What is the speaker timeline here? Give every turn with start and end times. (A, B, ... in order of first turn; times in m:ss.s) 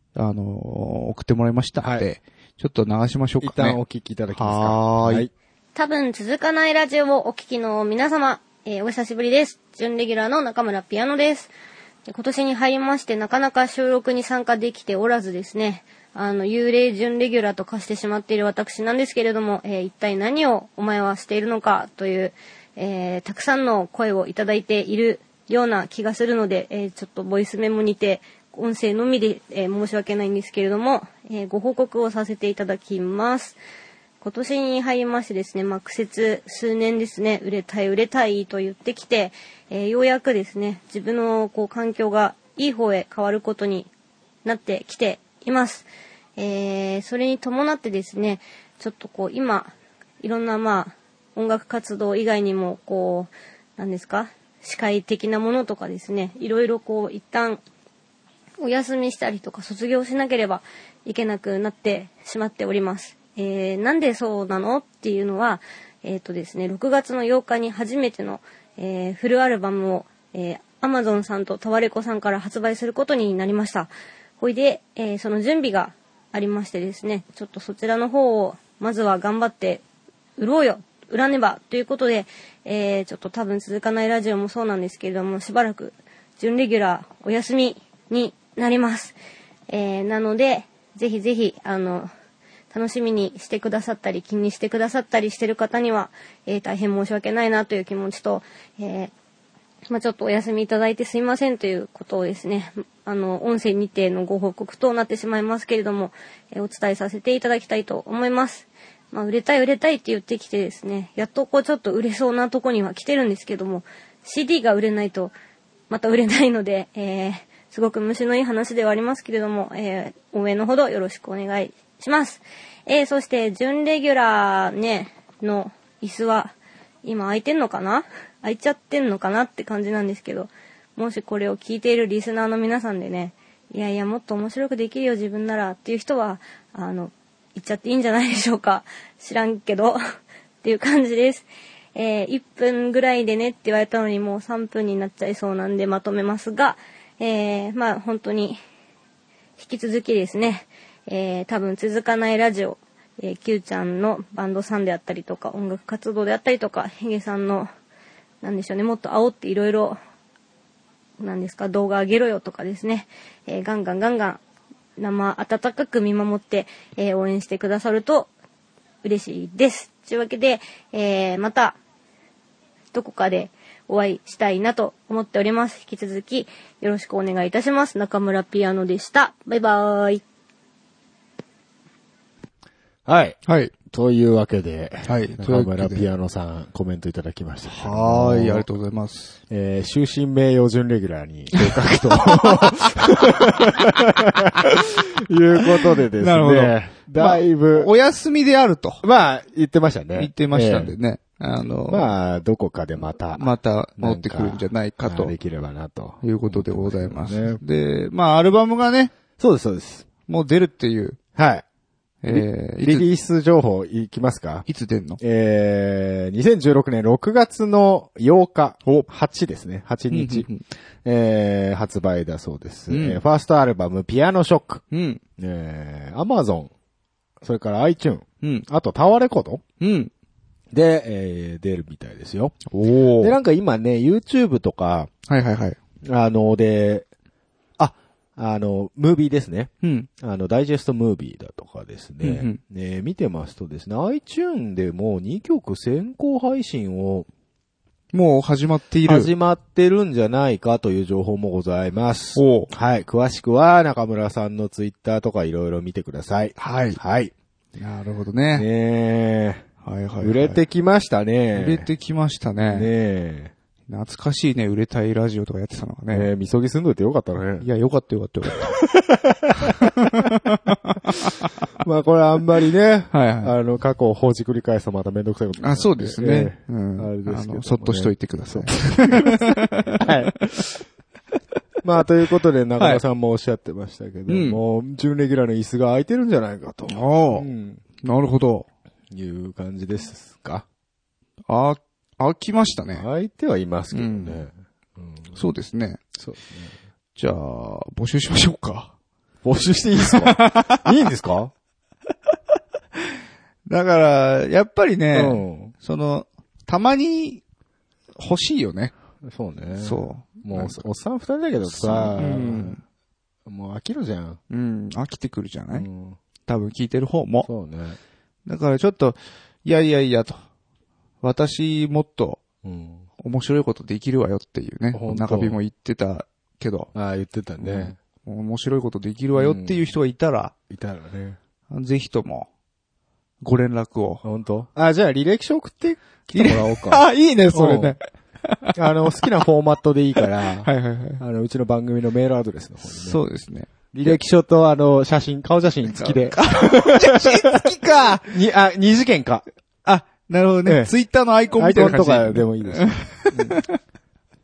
0:00.1-0:03.8 A
0:01.8-0:02.1 B
0:03.4-0:05.3 B
0:04.3-0:05.3 A
0:05.8-0:11.5 C
0:12.1-0:33.6 C
0:34.2-0:43.9 C
0:44.4-0:57.6 C
0:58.6-1:19.8 C
1:20.4-1:29.2 C
1:29.7-1:32.1 C
1:32.7-1:39.1 C
1:39.9-1:55.3 C
1:55.9-2:20.0 C
2:20.6-2:28.6 C
2:29.6-2:37.7 C
2:38.4-2:40.0 C
2:41.2-2:44.4 C
2:45.0-2:48.3 C
2:49.0-2:51.8 C
2:52.9-3:00.2 C
3:03.0-3:03.4 B
3:03.4-3:03.7 A
3:03.9-3:08.7 B
3:05.0-3:06.1 A
3:07.7-3:09.4 A
3:09.5-3:17.9 B
3:12.2-3:13.5 A
3:16.2-3:19.0 A
3:19.0-3:20.9 B
3:20.2-3:22.1 A
3:21.9-3:27.6 B
3:23.3-3:25.3 A
3:26.2-3:29.1 A
3:29.4-3:30.1 B
3:30.3-3:31.2 A
3:31.4-3:31.6 B
3:32.2-3:33.0 A
3:32.3-3:34.6 B
3:34.6-3:35.2 A
3:35.2-3:40.5 B
3:40.1-3:40.6 A
3:41.0-3:44.8 B
3:42.9-3:43.2 A
3:44.9-3:45.2 A
3:45.4-3:46.7 B
3:47.4-3:49.6 B
3:49.8-3:50.1 A
3:50.7-3:52.6 B
3:52.7-3:53.4 A
3:53.2-3:55.1 B
3:55.3-3:55.8 A
3:56.0-3:57.1 B
3:57.8-4:07.3 B
3:59.8-4:00.1 A
4:02.2-4:02.6 A
4:08.1-4:09.3 A
4:09.0-4:17.3 B
4:12.4-4:12.7 A
4:16.6-4:17.0 A
4:17.8-4:18.7 A
4:18.5-4:19.6 B
4:19.8-4:20.6 A
4:20.2-4:21.9 B
4:21.5-4:22.9 A
4:22.6-4:23.5 B
4:23.9-4:26.3 A
4:26.1-4:27.7 B
4:27.6-4:28.8 A
4:28.6-4:29.9 B
4:29.6-4:31.5 A
4:31.8-4:40.8 B
4:33.1-4:33.5 A
4:35.6-4:40.3 A
4:41.8-4:47.8 B
4:44.3-4:44.6 A
4:46.9-4:47.5 A
4:48.0-4:48.7 A
4:49.1-4:50.6 B
4:51.5-4:53.0 A
4:52.9-4:55.4 B
4:53.9-4:54.4 A
4:55.3-4:56.0 A
4:56.2-4:56.7 B
4:57.2-4:58.9 A
4:59.4-5:01.5 B
5:00.0-5:00.8 A
5:03.7-5:07.4 A
5:05.1-5:05.7 B
5:08.2-5:08.9 A
5:09.2-5:12.8 B
5:09.8-5:10.8 A
5:11.7-5:12.8 A
5:13.4-5:14.4 B
5:14.5-5:15.8 A
5:15.7-5:16.2 B
5:16.5-5:17.5 A
5:17.4-5:18.0 B
5:18.4-5:20.4 A
5:21.2-5:22.4 A
5:22.6-5:23.0 B
5:23.2-5:26.9 A
5:24.9-5:25.6 B
5:26.9-5:28.0 B
5:27.6-5:30.5 A
5:29.3-5:29.8 B
5:30.7-5:31.4 B
5:31.7-5:32.5 A
5:33.4-5:34.2 A
5:34.2-5:38.0 B
5:36.3-5:38.7 A
5:38.7-5:43.2 B
5:40.6-5:41.2 A
5:42.9-5:44.2 A
5:43.9-5:47.6 B
5:45.9-5:48.3 A
5:48.2-5:49.4 B
5:49.8-5:53.8 A
5:50.6-5:50.9 B
5:51.6-5:53.6 B